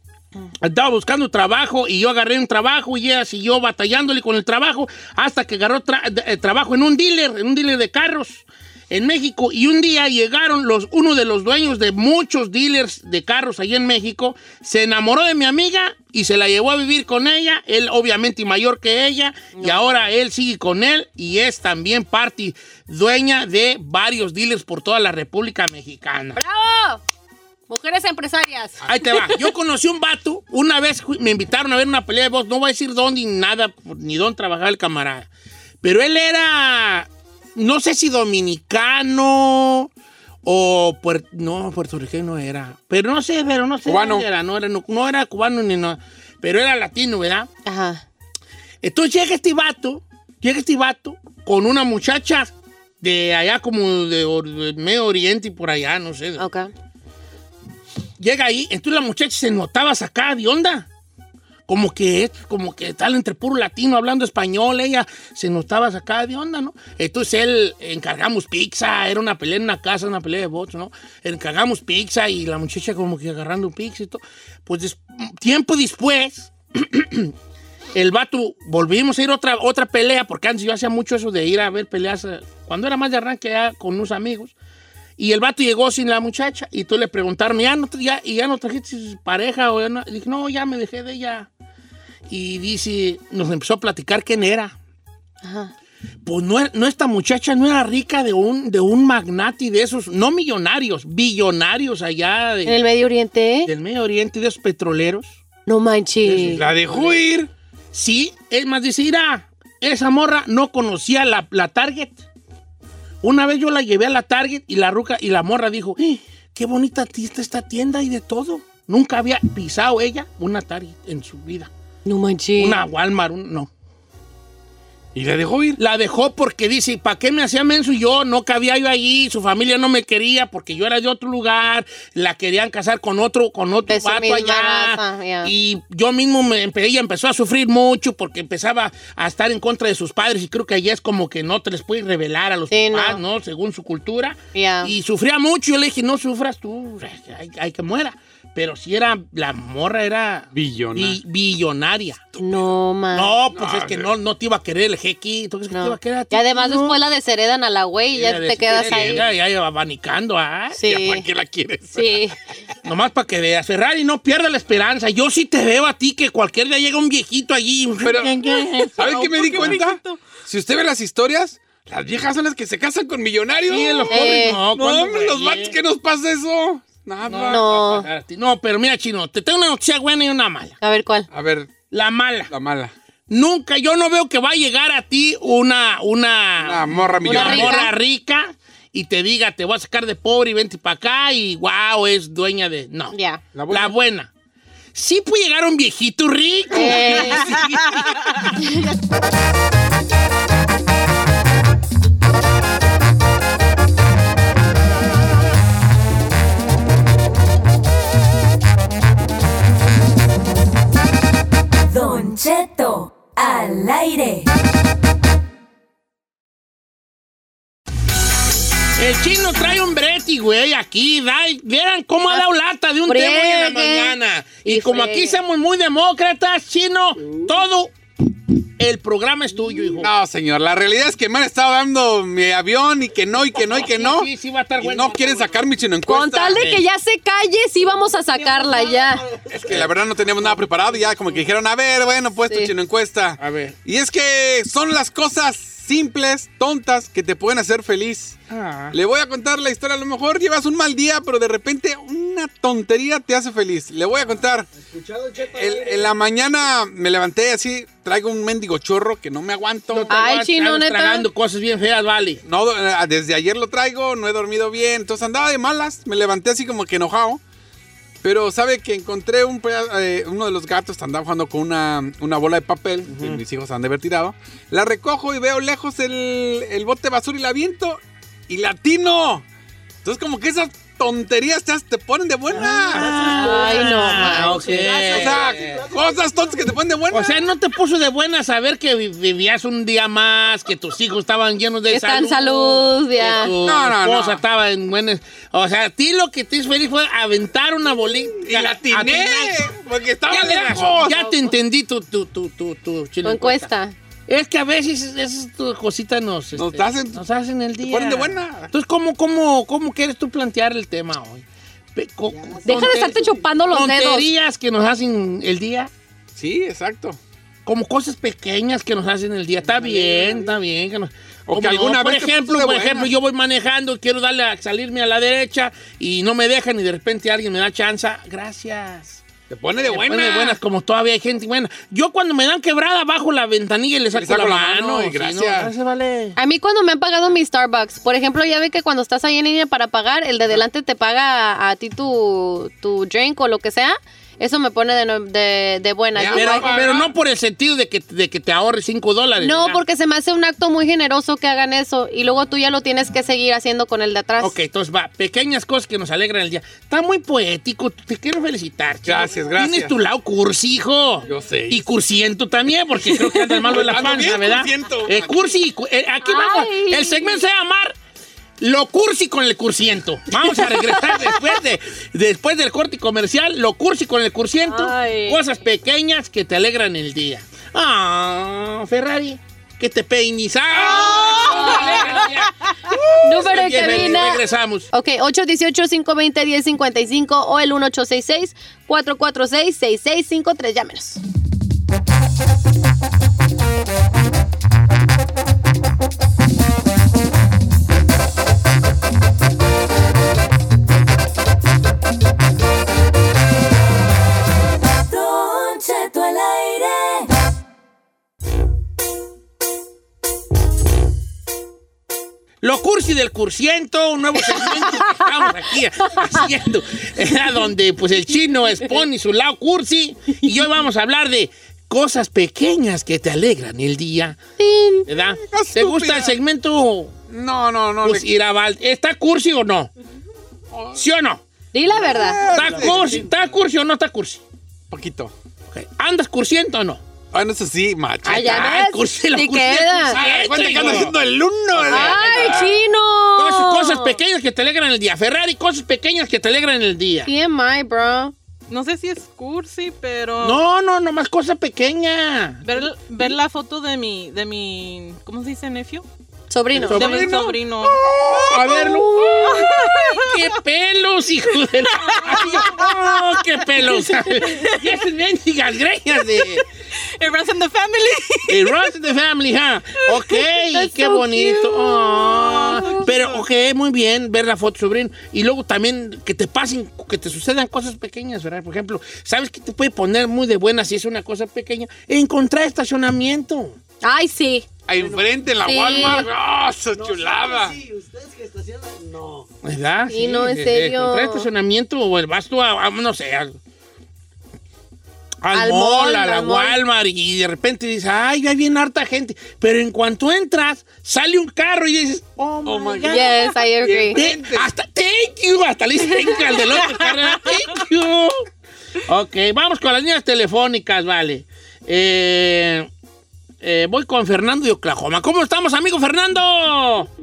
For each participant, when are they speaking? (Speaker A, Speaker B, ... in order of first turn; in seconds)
Speaker A: 0.6-26.4, 28.8-35.3, 35.8-39.9, 40.4-47.5, 48.8-56.4, 58.2-60.9, 61.7-77.3, 77.9-84.5, 85.2-91.5, 92.3-94.7, 96.2-102.8, 103.7-105.4, 106.2-107.1, 107.9-112.2, 113.2-121.7, 122.6-123.7, 125.8-152.2, 153.1-157.0, 158.1-160.8, 162.8-169.0, 169.5-169.8, 173.7-175.8, 177.2-180.8, 181.9-182.5, 183.3-193.1, 193.7-194.3, 194.9-197.9, 218.9-227.9, 228.8-230.1, 233.7-235.6, 236.5-236.8, 239.5-239.9, 243.4-243.8, 248.5-249.0, 259.9-262.4, 273.1-273.4, 282.5-285.9, 287.1-299.7, 300.3-303.7, 304.3-315.9, 317.6-329.2, 329.8-336.4, 346.3-349.8, 354.4-368.0, 368.6-384.9, 412.6-424.4, 425.1-427.1, 428.0-429.9, 430.9-431.4, 432.4-434.4, 435.7-437.0, 438.2-441.1, 441.7-442.7, 443.4-447.3, 450.4-452.7, 456.8-466.6, 468.5-483.8, 489.6-493.6, 495.4-503.4, 504.1-508.4, 509.0-512.9, 513.6-517.1
Speaker B: 19.5-20.1, 26.3-27.0, 27.7-28.8, 47.6-48.0, 56.4-56.7, 95.4-95.7, 102.7-103.7, 105.7-106.6, 122.0-122.8, 133.9-135.5, 142.7-143.2, 144.5-144.9, 152.4-153.3, 155.7-159.2, 160.7-161.2, 161.9-162.3, 174.1-174.6, 177.5-178.1, 180.8-181.3, 187.2-187.9, 193.1-193.4, 196.7-197.5, 223.1-225.4, 236.1-239.2, 260.1-261.2, 283.0-284.9, 291.9-293.6, 303.2-303.9, 312.6-314.3, 336.4-346.8, 349.4-354.6, 366.2-367.4, 370.7-371.4, 374.7-375.4, 381.0-382.1, 383.2-391.2, 414.6-415.3, 416.1-416.4, 424.6-425.1, 431.7-432.4, 438.2-440.2, 441.9-444.2, 447.2-448.3, 456.5-457.2, 470.7-473.0, 484.0-484.6, 485.6-486.3, 490.1-491.5, 495.5-496.8, 503.1-504.2
Speaker C: 43.9-44.2, 106.3-107.5, 125.1-125.8, 150.5-151.2, 152.3-152.6, 153.5-154.1, 158.7-159.2, 160.9-162.2, 168.0-168.4, 169.0-177.9, 181.3-181.8, 182.5-182.9, 186.6-187.7, 193.5-193.9, 230.0-234.3, 234.8-236.7, 239.5-248.4, 248.9-254.7, 255.3-260.1, 262.4-267.4, 268.2-279.4, 280.0-283.5, 285.0-287.5, 293.6-294.4, 298.4-301.2, 306.5-307.2, 307.8-308.7, 316.4-317.2, 321.5-323.1, 329.5-330.6, 334.1-335.7, 346.1-347.1, 359.1-360.0, 361.3-361.9, 363.6-365.5, 380.8-381.9, 425.4-426.4, 427.3-428.3, 430.7-431.0, 431.8-433.4, 434.9-435.3, 437.3-438.8, 439.5-442.7, 456.7-458.8, 462.2-462.6, 484.9-487.8, 502.6-504.7
Speaker D: 168.6-170.3, 448.7-450.6, 452.6-456.0, 456.9-458.0, 459.5-460.5, 462.0-465.0, 467.2-468.9, 472.3-473.4
Speaker E: 211.9-214.5, 405.0-407.3